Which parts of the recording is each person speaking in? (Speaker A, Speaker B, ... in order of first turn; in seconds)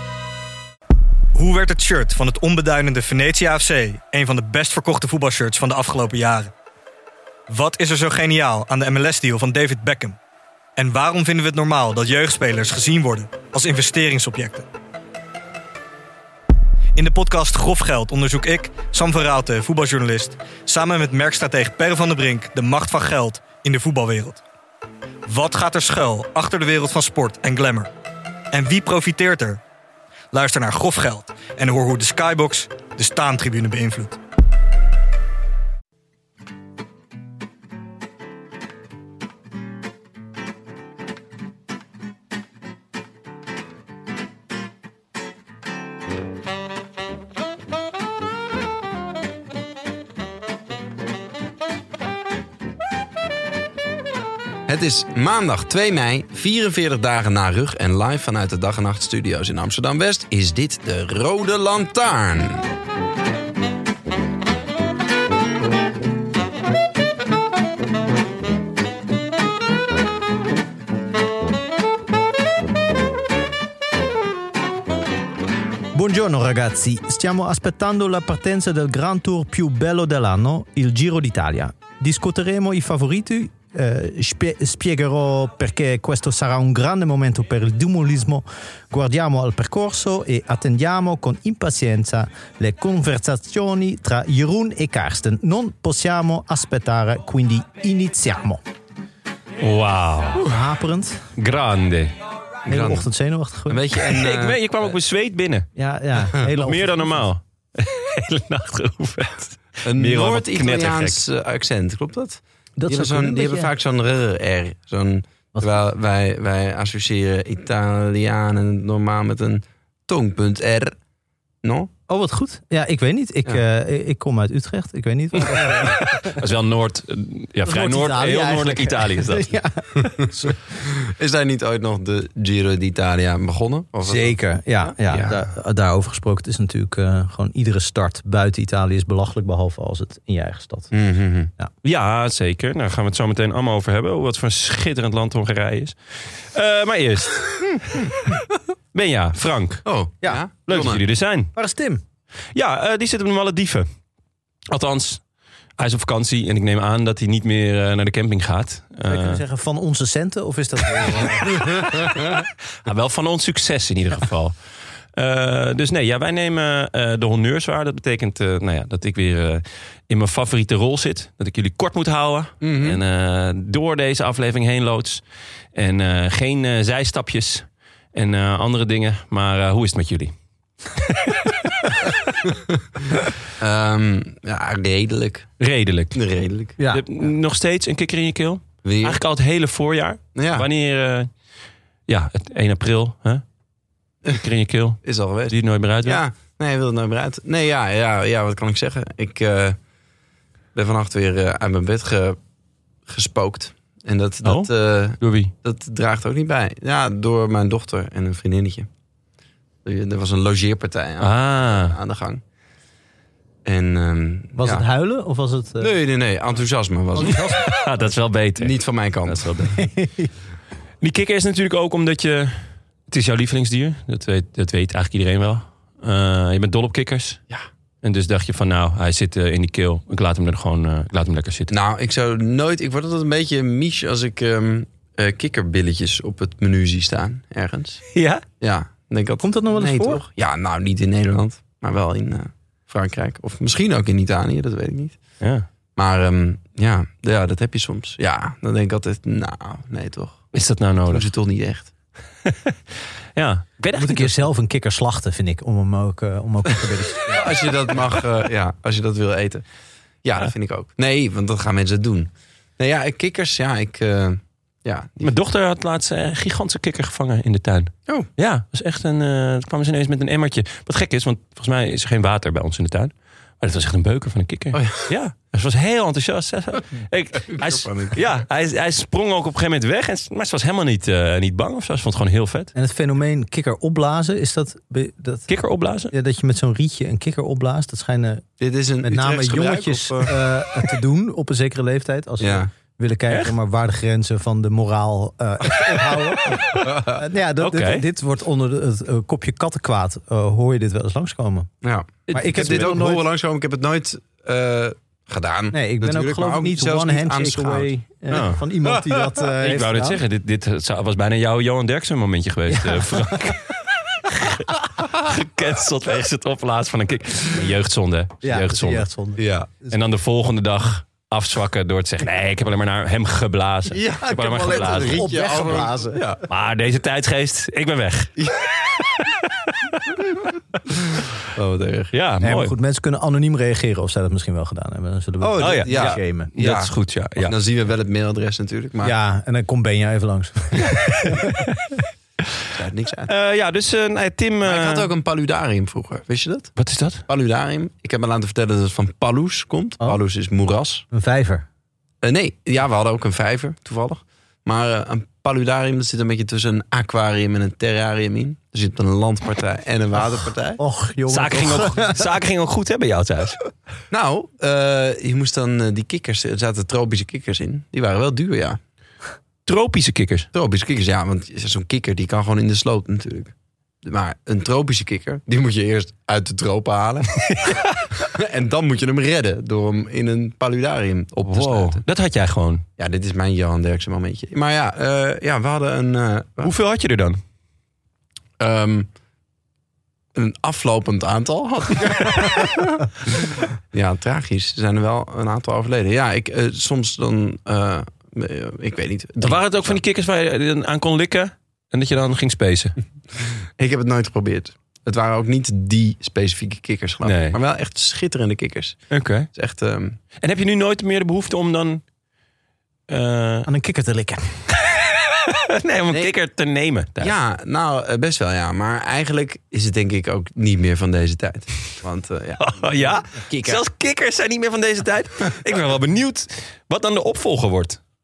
Speaker A: 1.3-6.5, 7.5-10.2, 10.8-14.7, 16.9-24.4, 25.2-27.9, 28.5-29.6, 30.3-34.2
Speaker B: 54.6-62.6, 102.7-103.1, 103.7-104.9, 109.8-121.0, 121.6-121.9, 130.8-134.4, 140.9-141.5, 147.8-148.2, 149.8-151.0, 172.6-173.0, 183.6-185.5, 186.1-186.7, 188.8-189.2, 190.3-190.7, 195.0-199.8, 200.7-202.4, 203.1-208.9, 209.8-212.4, 213.6-214.8, 215.8-217.4, 218.6-219.5, 231.7-238.0, 238.6-245.2, 245.9-250.5, 251.1-251.9, 257.3-259.6, 260.2-265.3, 274.7-275.1, 277.4-278.4, 288.6-290.3, 292.4-292.7, 296.8-297.2, 301.8-309.0, 319.4-319.7, 323.9-326.4, 328.4-328.6, 331.5-332.1, 335.4-339.1, 342.7-343.3, 344.6-346.7, 347.3-351.0, 352.2-360.8, 364.1-368.8, 370.5-373.5, 374.0-377.4, 378.2-382.0, 383.0-386.7, 388.6-389.1, 390.3-400.0, 403.4-410.2, 417.2-423.8
Speaker C: 75.9-98.6, 100.4-101.2, 102.7-103.8, 105.8-107.3, 112.8-113.7, 122.1-126.4, 127.7-130.6, 134.0-140.9, 151.5-152.0, 159.0-162.1, 186.8-187.0, 214.6-215.9, 217.1-217.7, 219.8-220.3, 239.4-240.2, 253.9-257.5, 282.7-285.5, 286.1-288.4, 289.0-301.7, 302.3-303.2, 305.7-310.2, 312.7-313.6, 318.4-320.0, 324.7-326.2, 332.4-336.5, 339.0-341.4, 351.1-351.6, 360.8-362.2, 413.6-414.6
Speaker D: 99.6-100.4, 101.4-102.1, 104.0-105.7, 106.4-111.2, 125.5-129.5, 141.8-148.2, 148.9-149.8, 150.7-151.5, 152.5-153.9, 154.7-155.2, 155.8-159.4, 162.8-164.6, 165.2-175.2, 175.7-180.3, 180.9-182.1, 185.6-186.2, 186.9-191.3, 192.1-193.4, 194.2-196.2, 204.4-205.5, 211.2-211.9, 217.4-219.8, 221.0-227.4, 228.0-231.7, 238.1-238.4, 245.4-245.7, 250.5-251.3, 252.4-252.8, 253.3-254.4, 265.2-282.7, 285.5-286.1, 296.5-296.9, 297.6-298.0, 302.4-302.9, 308.3-308.6, 309.6-319.1, 319.9-325.3, 326.5-330.0, 332.1-332.7, 335.6-337.5, 340.8-342.0, 343.3-345.1, 346.8-347.2, 361.3-363.6, 369.6-370.5, 381.4-382.8, 386.6-387.4, 399.4-403.0, 407.2-407.6, 409.1-409.5, 410.4-412.0, 413.1-413.7, 414.9-417.4, 422.6-428.0